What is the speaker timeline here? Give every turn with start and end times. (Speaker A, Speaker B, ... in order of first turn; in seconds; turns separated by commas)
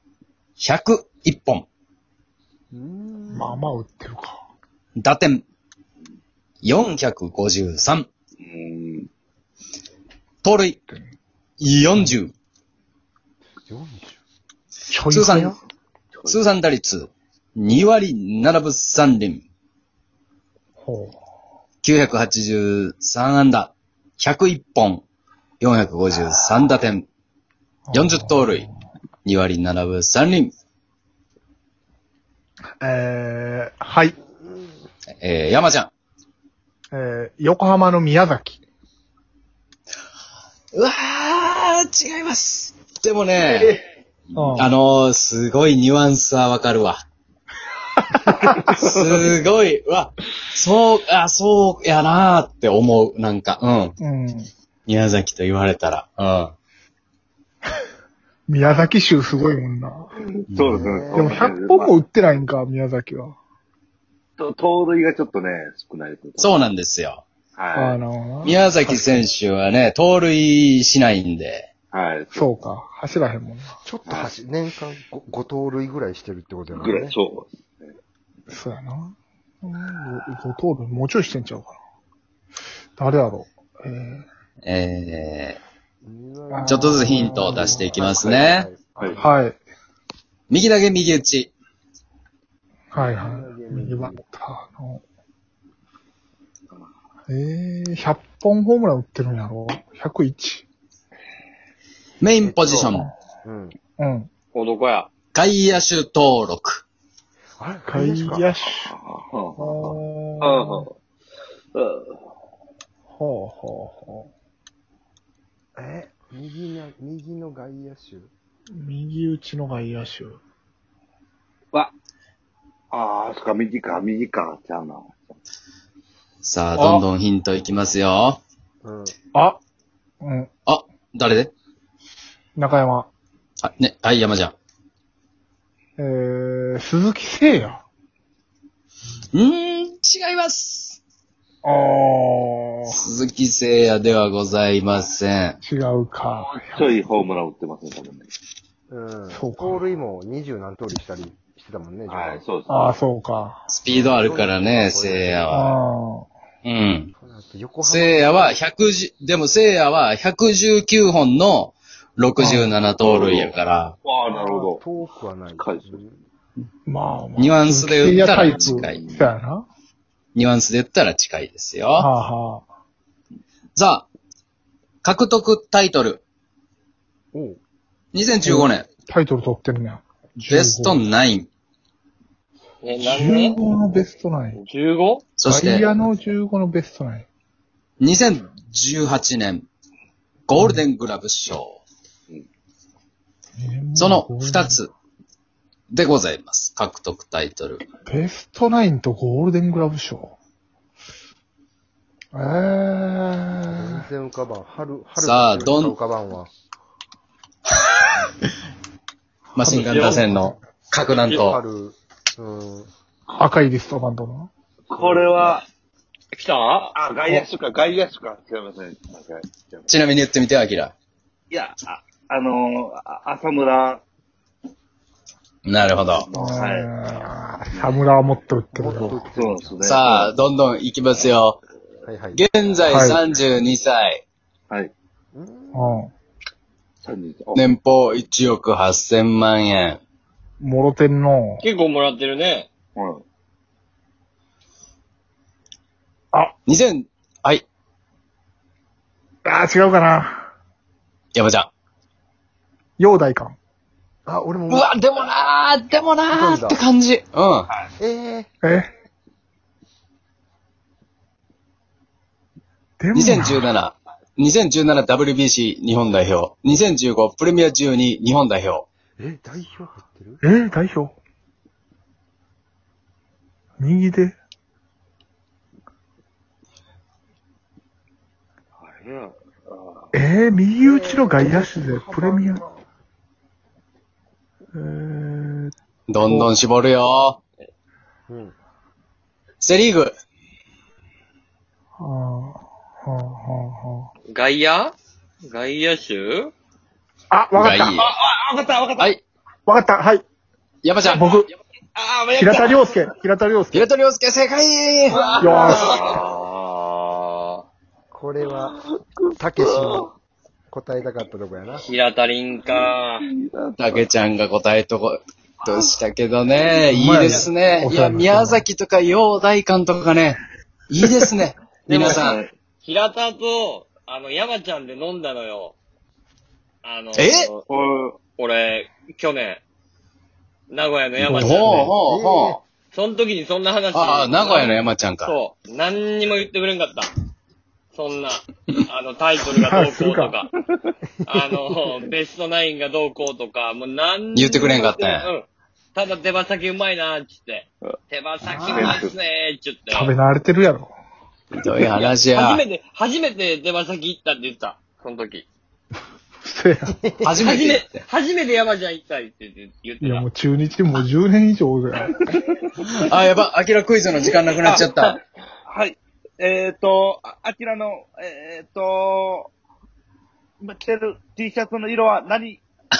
Speaker A: 0.6-1.7, Speaker B: 2.7-3.7, Speaker C: 3.3-4.4, Speaker A: 5.0-5.4, Speaker A: 6.6-8.1, Speaker D: 8.4-9.1, Speaker A: 10.4-10.8, Speaker C: 10.9-11.2, Speaker A: 11.6-12.3, Speaker B: 13.7-14.2, Speaker C: 14.9-15.6, Speaker A: 15.1-15.6, Speaker A: 16.3-19.4, Speaker C: 20.8-21.2, Speaker A: 21.8-25.0, Speaker A: 25.6-27.1, Speaker C: 27.9-28.7, Speaker A: 27.9-28.7, Speaker A: 29.2-30.5, Speaker C: 32.8-34.2, Speaker A: 35.2-35.9, Speaker C: 36.9-38.6, Speaker A: 40.7-43.8, Speaker C: 44.3-44.7, Speaker A: 44.4-47.0, Speaker C: 48.1-48.5, Speaker A: 48.7-54.0, Speaker C: 54.0-54.5, Speaker A: 54.9-56.5, Speaker C: 58.5-60.1, Speaker B: 60.5-61.5, Speaker D: 60.5-62.0, Speaker C: 61.1-63.4, Speaker D: 64.4-66.6, Speaker A: 66.4-67.2, Speaker D: 67.6-68.0, Speaker C: 67.8-69.2, Speaker A: 68.4-71.7, Speaker D: 71.9-72.5, Speaker C: 72.3-73.8, Speaker B: 73.8-77.2, Speaker D: 74.1-74.3, Speaker D: 76.7-77.9, Speaker C: 78.5-81.8, Speaker C: 83.0-84.2, Speaker A: 84.6-85.6, Speaker B: 86.0-89.4, Speaker C: 86.5-88.0, Speaker A: 86.7-88.7, Speaker C: 89.2-89.6, Speaker A: 90.5-91.5, Speaker C: 92.9-95.0, Speaker B: 93.0-94.2, Speaker C: 97.3-100.7, Speaker A: 102.2-103.1, Speaker B: 102.4-103.8, Speaker C: 104.0-104.3, Speaker E: 104.5-105.1, Speaker A: 105.3-106.8, Speaker B: 107.6-108.5, Speaker C: 107.9-108.9, Speaker D: 108.8-110.9, Speaker C: 109.6-110.9, Speaker D: 111.7-112.2, Speaker C: 113.1-114.3, Speaker B: 115.8-118.3, Speaker C: 118.8-120.4, Speaker D: 122.9-125.2, Speaker A: 126.4-128.4, Speaker C: 126.8-127.0, Speaker B: 128.8-129.1, Speaker C: 129.3-129.6, Speaker C: 130.2-130.5, Speaker A: 130.7-131.5, Speaker C: 132.6-133.1, Speaker A: 133.6-134.6, Speaker C: 136.0-137.8, Speaker A: 139.3-141.0, Speaker C: 141.6-143.0, Speaker A: 142.9-145.6, Speaker C: 145.6-147.0, Speaker D: 146.5-148.3, Speaker B: 148.9-152.4, Speaker C: 149.3-149.8, Speaker D: 152.1-152.9, Speaker C: 152.7-153.7, Speaker A: 153.7-155.8, Speaker B: 153.9-155.6, Speaker C: 155.5-156.3, Speaker A: 156.7-157.1, Speaker B: 157.2-158.6, Speaker A: 157.8-163.9, Speaker C: 162.4-162.8, Speaker D: 163.0-164.8, Speaker B: 164.3-166.2, Speaker D: 165.6-166.0, Speaker C: 166.9-169.7, Speaker A: 167.4-169.0, Speaker D: 168.3-169.3, Speaker A: 170.3-172.1, Speaker C: 172.0-172.7, Speaker A: 173.8-174.1, Speaker A: 175.0-176.2, Speaker B: 177.3-177.6, Speaker A: 178.1-178.9, Speaker C: 178.4-181.0, Speaker A: 180.5-181.5, Speaker E: 182.8-183.6, Speaker C: 183.0-184.6, Speaker E: 184.5-185.3, Speaker A: 185.4-185.9, Speaker C: 185.4-187.3, Speaker A: 188.0-189.7, Speaker A: 190.5-191.8, Speaker C: 190.6-190.8, Speaker C: 193.6-194.8, Speaker A: 194.0-194.9, Speaker A: 195.9-197.8, Speaker C: 198.1-200.4, Speaker C: 202.3-204.1, Speaker B: 203.7-206.5, Speaker A: 205.2-206.0, Speaker A: 209.5-211.6, Speaker C: 209.6-210.5, Speaker E: 209.8-210.2, Speaker E: 211.2-211.4, Speaker B: 211.2-212.9, Speaker C: 213.3-214.5, Speaker D: 214.9-215.7, Speaker B: 215.0-215.3, Speaker E: 216.3-216.9, Speaker D: 216.9-219.9, Speaker A: 219.9-220.9, Speaker D: 221.5-224.0, Speaker A: 225.7-226.3, Speaker B: 226.3-226.7, Speaker C: 226.3-229.2, Speaker D: 226.5-226.9, Speaker D: 227.7-228.0, Speaker B: 228.7-229.8, Speaker D: 229.4-230.3, Speaker A: 229.8-231.6, Speaker B: 232.0-232.5, Speaker A: 232.3-234.2, Speaker C: 232.9-233.2, Speaker B: 235.3-236.0, Speaker C: 235.7-236.1, Speaker D: 237.0-237.7, Speaker A: 237.6-240.0, Speaker C: 240.6-241.7, Speaker E: 241.6-242.7, Speaker D: 243.0-243.2, Speaker A: 246.7-247.7, Speaker C: 249.4-250.5, Speaker A: 251.3-251.7, Speaker C: 253.0-253.6, Speaker B: 254.3-254.9, Speaker A: 254.7-257.7, Speaker B: 256.3-256.8, Speaker B: 258.0-258.5, Speaker C: 258.6-258.9, Speaker C: 263.0-263.7, Speaker A: 263.1-268.9, Speaker B: 269.2-270.4, Speaker C: 270.4-271.2, Speaker C: 273.8-274.4, Speaker D: 278.8-279.4, Speaker C: 280.1-282.6, Speaker B: 280.8-282.8, Speaker C: 284.7-286.5, Speaker A: 286.1-287.4, Speaker B: 288.3-288.6, Speaker A: 289.6-290.1, Speaker C: 292.0-294.1, Speaker E: 294.3-294.9, Speaker E: 295.5-296.5, Speaker C: 297.3-298.0, Speaker A: 297.6-298.1, Speaker D: 298.0-299.1, Speaker C: 299.7-300.2, Speaker A: 300.8-301.4, Speaker C: 301.0-301.5, Speaker D: 302.0-302.9, Speaker C: 302.3-303.9, Speaker A: 303.7-306.1, Speaker D: 305.2-306.2, Speaker C: 305.4-306.0, Speaker E: 305.4-305.9, Speaker E: 306.5-307.5, Speaker B: 308.1-308.8, Speaker D: 309.2-310.0, Speaker B: 309.4-310.1, Speaker B: 310.7-311.9, Speaker E: 311.9-313.3, Speaker D: 312.7-314.0, Speaker A: 313.8-322.4, Speaker C: 316.9-318.7, Speaker E: 321.9-322.2, Speaker D: 321.9-322.5, Speaker E: 322.8-325.8, Speaker E: 326.8-327.6, Speaker A: 327.2-327.5, Speaker D: 327.7-328.2, Speaker E: 328.3-329.6, Speaker E: 330.7-331.9, Speaker C: 331.2-331.9, Speaker A: 331.4-332.6, Speaker B: 331.9-332.6, Speaker E: 332.9-337.1, Speaker A: 333.9-335.3, Speaker E: 337.9-340.5, Speaker C: 339.6-340.4, Speaker E: 341.2-350.1, Speaker A: 344.4-345.3, Speaker A: 348.5-348.9, Speaker D: 348.7-349.1, Speaker C: 349.9-350.9, Speaker A: 351.5-352.6, Speaker E: 351.9-355.5, Speaker C: 356.4-356.9, Speaker B: 357.0-357.3, Speaker A: 357.2-358.0, Speaker E: 357.4-360.3, Speaker C: 360.0-362.4, Speaker A: 362.8-365.2, Speaker D: 364.6-364.9, Speaker D: 365.7-369.5, Speaker D: 370.6-372.6